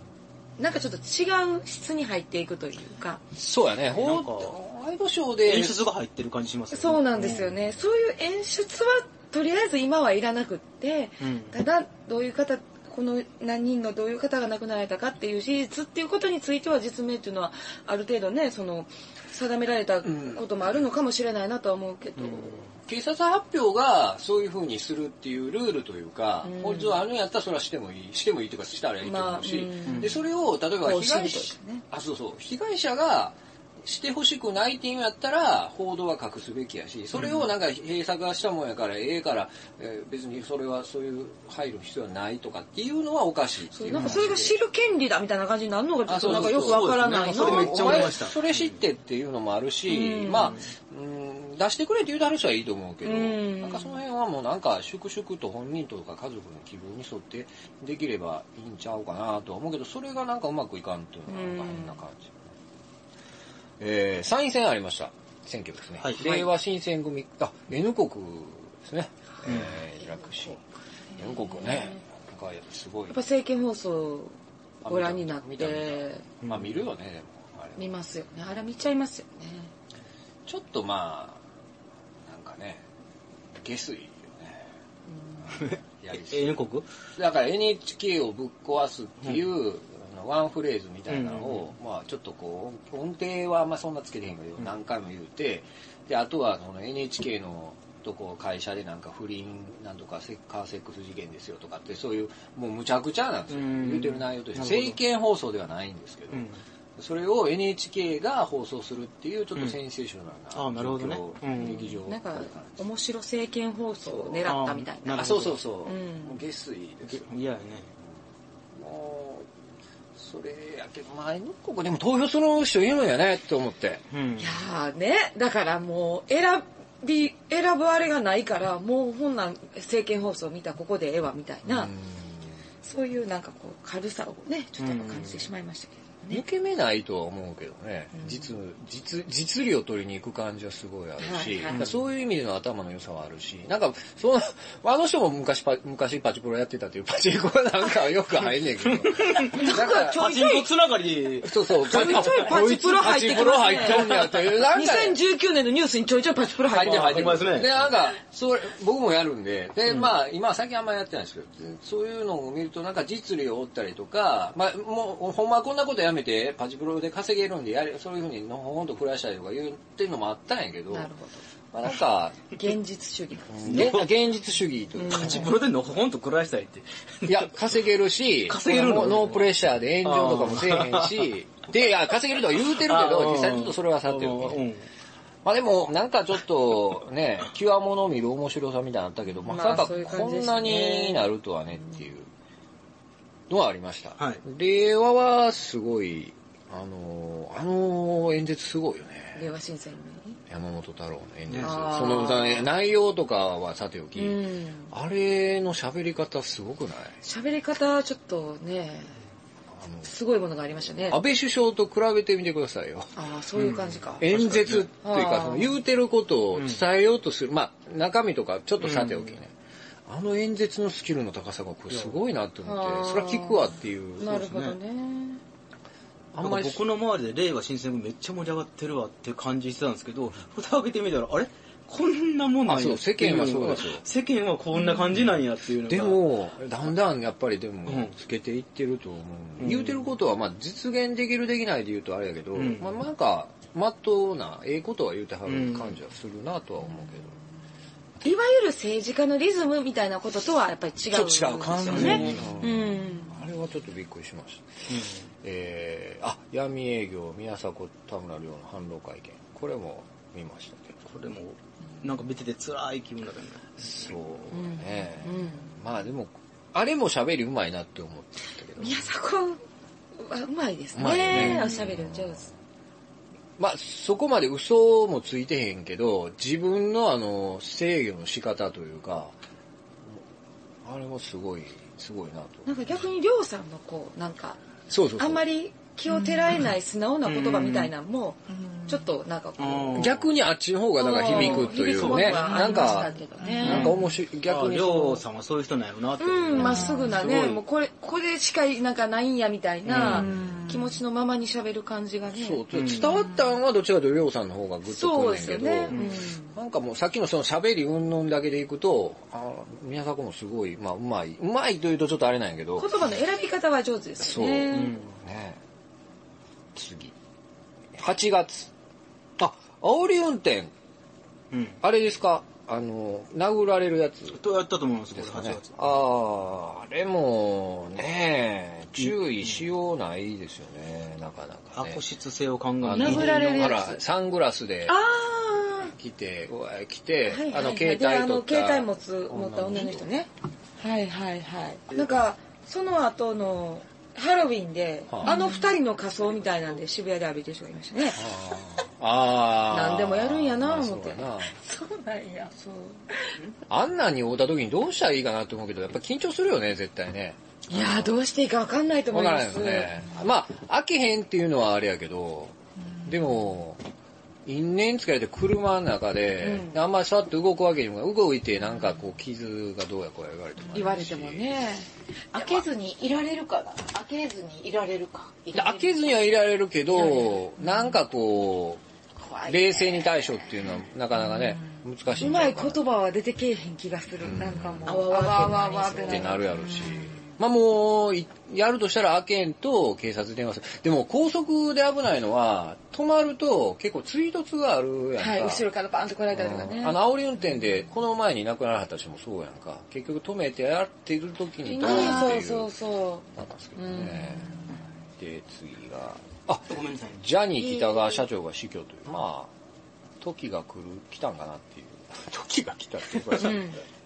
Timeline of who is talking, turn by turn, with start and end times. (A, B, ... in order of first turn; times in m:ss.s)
0:00.6-0:03.2 A
0:03.4-0:05.9 B
0:03.9-0:04.5 C
0:05.5-0:07.5 C
0:06.7-0:22.7 A
0:11.2-0:11.6 C
0:20.0-0:20.4 B
0:22.2-0:22.7 C
0:22.8-0:44.6 B
0:26.4-0:27.0 A
0:29.0-0:30.2 A
0:29.9-0:30.1 C
0:30.8-0:31.8 A
0:37.2-0:37.4 C
0:43.7-0:48.2 A
0:43.9-0:44.3 C
0:46.1-1:02.5 B
0:46.1-0:48.8 C
0:49.9-0:50.6 A
0:50.4-0:50.6 C
0:53.0-0:54.0 A
1:01.3-1:02.0 A
1:03.8-1:10.6 B
1:06.0-1:06.3 C
1:06.2-1:06.5 A
1:09.5-1:09.7 C
1:09.6-1:10.6 A
1:11.2-1:12.0 A
1:11.2-1:13.2 B
1:13.1-1:16.3 A
1:14.8-1:17.9 B
1:16.4-1:16.8 C
1:17.8-1:19.7 A
1:20.5-1:21.4 B
1:22.2-1:22.8 B
1:23.6-1:24.7 B
1:25.4-1:26.6 B
1:25.6-1:26.9 C
1:27.2-1:52.8 B
1:31.1-1:31.7 C
1:43.5-1:45.0 C
1:46.3-1:46.6 C
1:50.5-1:52.0 C
1:52.0-1:56.4 A
1:54.4-1:55.6 C
1:55.2-1:57.3 B
1:57.1-1:57.9 C
1:58.7-1:59.5 B
2:00.2-2:04.0 B
2:04.1-2:04.6 C
2:04.4-2:11.9 A
2:11.6-2:12.6 B
2:12.8-2:16.4 A
2:14.8-2:15.5 C
2:16.3-2:30.3 B
2:18.1-2:18.5 A
2:21.2-2:21.8 A
2:28.9-2:34.3 C
2:29.4-2:30.7 A
2:31.4-2:35.2 B
2:31.8-2:37.5 A
2:36.7-2:51.1 B
2:36.7-2:37.8 C
2:50.9-2:51.4 A
2:51.7-2:52.6 B
2:52.5-2:54.1 A
2:53.5-2:55.5 B
2:53.7-2:54.1 C
2:55.0-2:55.5 A
2:55.0-2:57.5 C
2:57.3-3:04.6 B
2:58.5-2:59.5 C
3:00.0-3:01.3 C
3:02.7-3:04.8 C
3:05.4-3:12.3 B
3:09.4-3:11.3 A
3:13.5-3:19.5 B
3:19.4-3:20.4 A
3:20.5-3:27.2 B
3:21.5-3:22.0 C
3:21.6-3:22.7 A
3:24.2-3:24.9 A
3:27.2-3:29.2 A
3:29.7-3:30.1 B
3:30.0-3:31.2 A
3:31.0-3:33.1 B
3:33.2-3:34.3 A
3:33.6-3:34.9 C
3:34.2-3:39.5 B
3:35.0-3:35.7 A
3:36.6-3:36.8 C
3:38.8-3:39.4 C
3:40.1-3:44.4 B
3:41.9-3:42.2 C
3:42.6-3:45.4 A
3:44.3-3:44.8 C
3:46.3-3:46.8 B
3:46.4-3:56.2 C
3:52.7-3:54.0 B
3:55.2-4:07.4 B
3:57.9-3:58.1 C
3:59.6-4:00.1 C
4:02.6-4:03.0 C
4:05.5-4:06.0 C
4:08.2-4:13.4 A
4:11.1-4:21.0 B
4:11.9-4:12.6 C
4:14.9-4:15.2 C
4:21.0-4:23.9 C
4:23.8-4:29.1 B
4:24.5-4:25.7 A
4:28.8-4:29.6 A
4:30.2-4:32.5 A
4:31.0-4:32.5 B
4:31.3-4:31.8 C
4:33.6-4:39.3 B
4:40.8-4:42.8 B
4:42.7-4:50.2 A
4:44.9-4:45.4 B
4:46.1-4:46.6 D
4:47.2-4:47.9 C
4:48.5-4:49.1 D
4:49.6-4:50.3 C
4:50.0-4:55.2 B
4:51.0-4:54.0 A
4:51.2-4:52.5 C
4:52.4-4:54.1 D
4:53.6-4:57.6 C
4:56.2-5:02.6 A
4:56.6-4:56.9 B
4:56.6-4:57.0 D
4:59.9-5:00.3 C
5:00.0-5:00.6 B
5:00.1-5:01.0 D
5:02.3-5:13.1 B
5:02.7-5:03.1 C
5:03.1-5:03.4 D
5:04.9-5:06.6 A
5:05.9-5:06.2 C
5:12.8-5:15.0 A
5:14.2-5:15.6 B
5:14.7-5:15.2 C
5:16.8-5:17.2 B
5:18.0-5:18.7 B
5:19.4-5:20.7 B
5:21.5-5:21.8 C
5:21.8-5:24.4 B
5:24.3-5:26.0 C
5:25.1-5:32.0 B
5:29.0-5:29.6 C
5:31.8-5:33.7 C
5:32.8-5:35.0 B
5:32.9-5:34.0 A
5:34.9-5:35.9 A
5:35.8-5:40.1 B
5:37.3-5:48.3 A
5:41.9-5:42.3 C
5:45.1-5:45.4 B
5:45.2-5:45.8 D
5:48.1-5:51.6 B
5:49.7-5:53.1 A
5:52.0-5:52.4 D
5:53.7-5:58.1 B
5:57.7-6:00.1 A
5:59.1-6:03.8 B
6:04.4-6:11.6 B
6:06.4-6:06.8 A
6:10.7-6:11.9 A
6:12.3-6:16.0 D
6:15.5-6:18.8 B
6:17.0-6:17.9 D
6:19.4-6:19.8 A
6:19.4-6:22.8 B
6:21.2-6:22.2 D
6:22.2-6:26.4 A
6:24.2-6:25.1 B
6:24.9-6:27.4 D
6:26.0-6:35.6 B
6:35.2-6:37.0 A
6:36.3-6:42.7 B
6:41.6-6:44.8 A
6:43.4-6:49.5 B
6:46.7-6:47.2 C
6:47.8-6:48.2 A
6:50.2-6:53.8 B
6:53.4-6:53.8 A